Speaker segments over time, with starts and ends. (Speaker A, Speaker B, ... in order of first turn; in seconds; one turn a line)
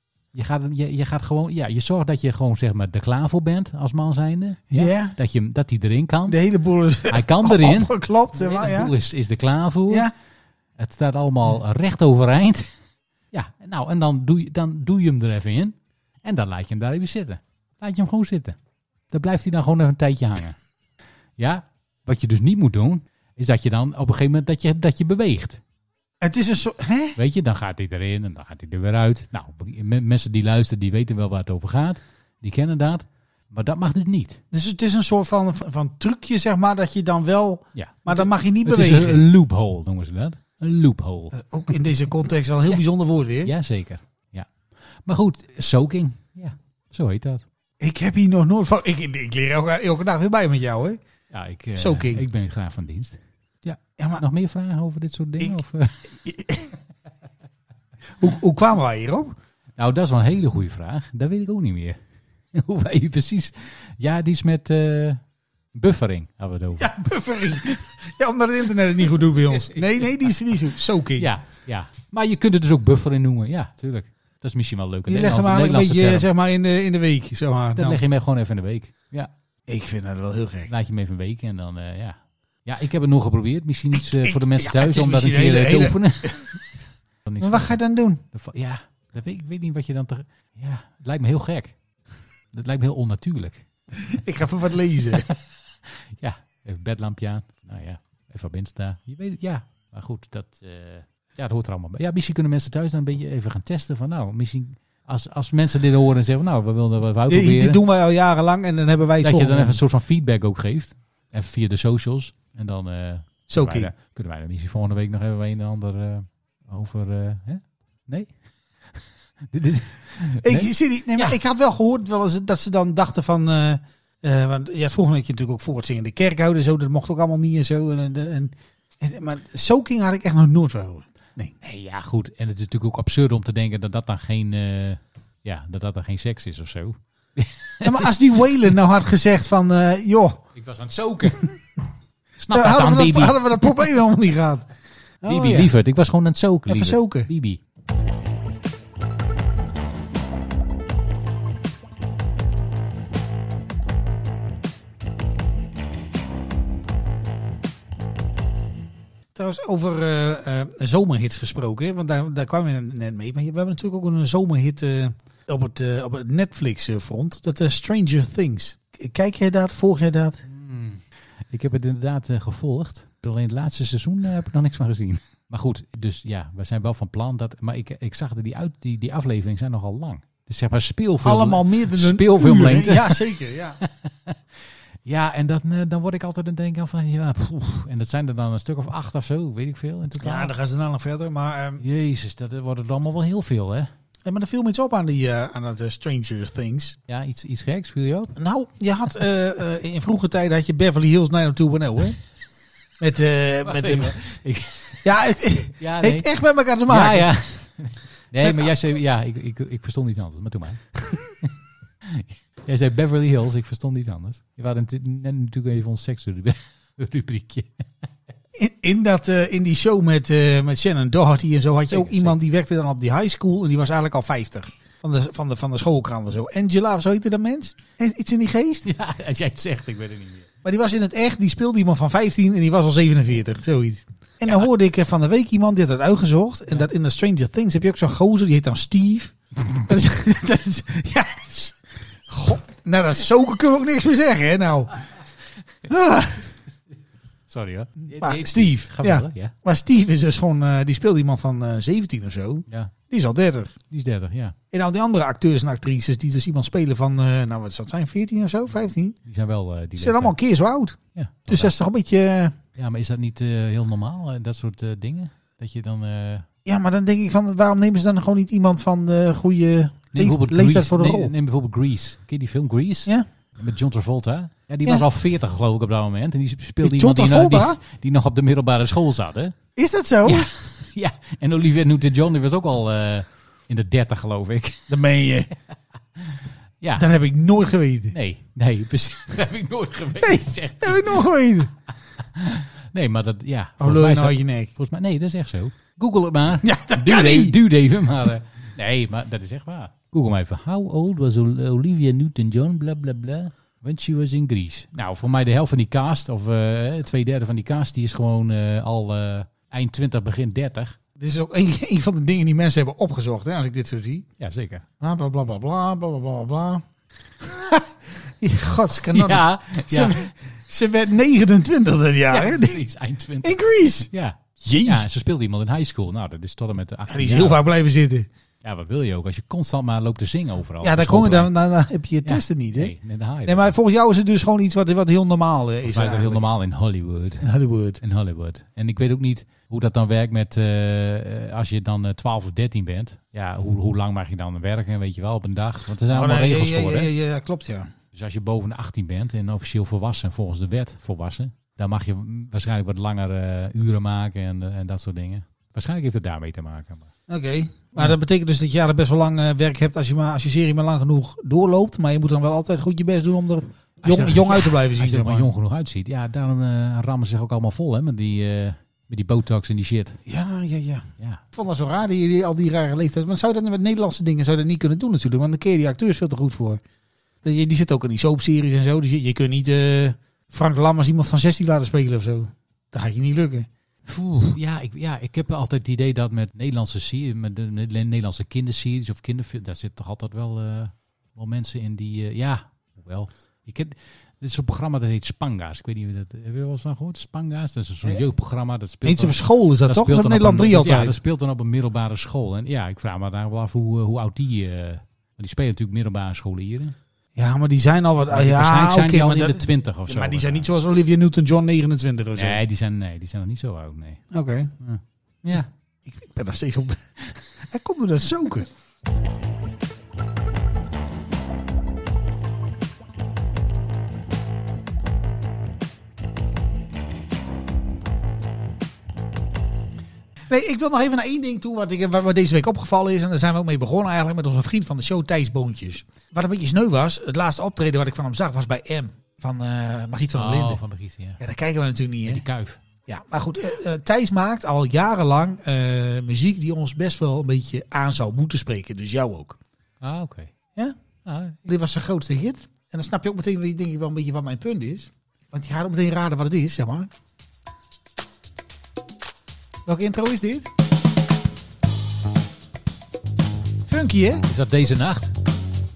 Speaker A: 0.3-6.4
Speaker B: 4.7-5.1
Speaker B: 6.3-8.9
Speaker A: 7.1-10.1
Speaker A: 10.8-12.7
Speaker A: 13.3-18.6
Speaker A: 19.1-20.6
Speaker A: 21.4-25.6
Speaker B: 26.2-27.2
Speaker A: 27.2-34.4
Speaker B: 34.5-39.2
Speaker A: 37.7-41.4
Speaker B: 41.3-43.5
Speaker A: 43.4-47.4
Speaker B: 47.8-51.0
Speaker A: 51.3-56.1
Speaker B: 51.8-52.2
Speaker B: 54.0-54.2
Speaker B: 56.1-56.8
Speaker B: 58.2-59.3
Speaker A: 59.8-62.0
Speaker A: 62.5-66.9
Speaker B: 66.8-71.3
Speaker A: 71.2-76.3
Speaker B: 75.1-78.0
Speaker A: 77.8-79.3
Speaker B: 79.7-80.7
Speaker A: 80.7-86.6
Speaker B: 83.9-86.5
Speaker A: 87.2-87.8
Speaker B: 87.4-88.2
Speaker A: 88.3-91.8
Speaker A: 92.5-93.7
Speaker B: 94.0-95.2
Speaker A: 95.9-107.8
Speaker B: 107.3-109.8
Speaker A: 109.2-118.3
Speaker B: 113.5-113.9
Speaker A: 119.5-121.4
Speaker B: 120.4-131.5
Speaker A: 131.6-138.1
Speaker B: 137.8-140.4
Speaker A: 140.5-141.5
Speaker A: 142.4-143.7
Speaker B: 142.5-144.7
Speaker B: 145.2-145.7
Speaker A: 145.3-147.6
Speaker B: 146.7-147.3
Speaker B: 159.3-170.4
Speaker A: 170.4-183.2
Speaker B: 181.2-183.8
Speaker A: 183.8-184.4
Speaker A: 185.0-190.5
Speaker B: 190.2-191.8
Speaker A: 191.8-193.9
Speaker B: 194.2-197.0
Speaker A: 197.1-198.3
Speaker B: 198.3-202.2
Speaker B: 203.0-204.2
Speaker A: 203.6-205.1
Speaker B: 205.0-207.3
Speaker A: 205.8-206.2
Speaker A: 206.9-211.2
Speaker B: 208.4-208.7
Speaker A: 212.0-217.8
Speaker B: 218.5-228.8
Speaker A: 221.9-222.3
Speaker A: 228.8-230.5
Speaker B: 230.6-245.0
Speaker B: 245.9-246.5
Speaker A: 247.5-249.5
Speaker B: 248.2-253.7
Speaker A: 253.9-254.6
Speaker B: 254.7-259.2
Speaker A: 259.2-260.4
Speaker B: 260.0-262.6
Speaker A: 261.1-261.7
Speaker A: 262.8-266.5
Speaker B: 266.6-271.3
Speaker A: 270.1-279.6
Speaker B: 276.8-277.8
Speaker B: 279.8-280.5
Speaker A: 280.2-284.9
Speaker B: 284.9-285.5
Speaker A: 286.3-287.1
Speaker B: 287.0-288.1
Speaker A: 288.1-291.2
Speaker B: 290.2-291.7
Speaker A: 292.2-311.0
Speaker B: 293.8-294.7
Speaker B: 296.6-297.6
Speaker B: 311.2-314.2
Speaker A: 314.4-314.9
Speaker B: 315.0-316.8
Speaker B: 317.4-322.8
Speaker A: 319.1-320.3
Speaker A: 322.3-327.6
Speaker B: 323.4-325.0
Speaker B: 327.1-328.3
Speaker A: 328.6-331.5
Speaker B: 330.8-332.9
Speaker A: 332.2-333.7
Speaker B: 333.4-336.4
Speaker A: 335.8-337.5
Speaker B: 337.4-338.0
Speaker A: 338.0-347.1
Speaker B: 346.1-347.9
Speaker A: 348.1-357.1
Speaker B: 357.3-365.5
Speaker A: 364.0-370.2
Speaker B: 370.2-376.8
Speaker B: 377.4-383.7
Speaker A: 384.1-406.9
Speaker B: 399.0-401.2
Speaker B: 407.4-412.6
Speaker A: 408.3-410.6
Speaker A: 412.4-414.2
Speaker B: 414.3-414.7
Speaker A: 414.8-415.7
Speaker B: 416.1-417.0
Speaker B: 417.6-418.7
Speaker B: 430.5-440.8
Speaker A: 440.3-441.4
Speaker B: 441.4-442.4
Speaker A: 442.2-442.8
Speaker B: 443.1-449.6
Speaker A: 450.0-450.5
Speaker A: 451.2-451.6
Speaker B: 451.6-457.1
Speaker B: 459.9-460.7
Speaker B: 463.9-464.4
Speaker A: 464.4-465.3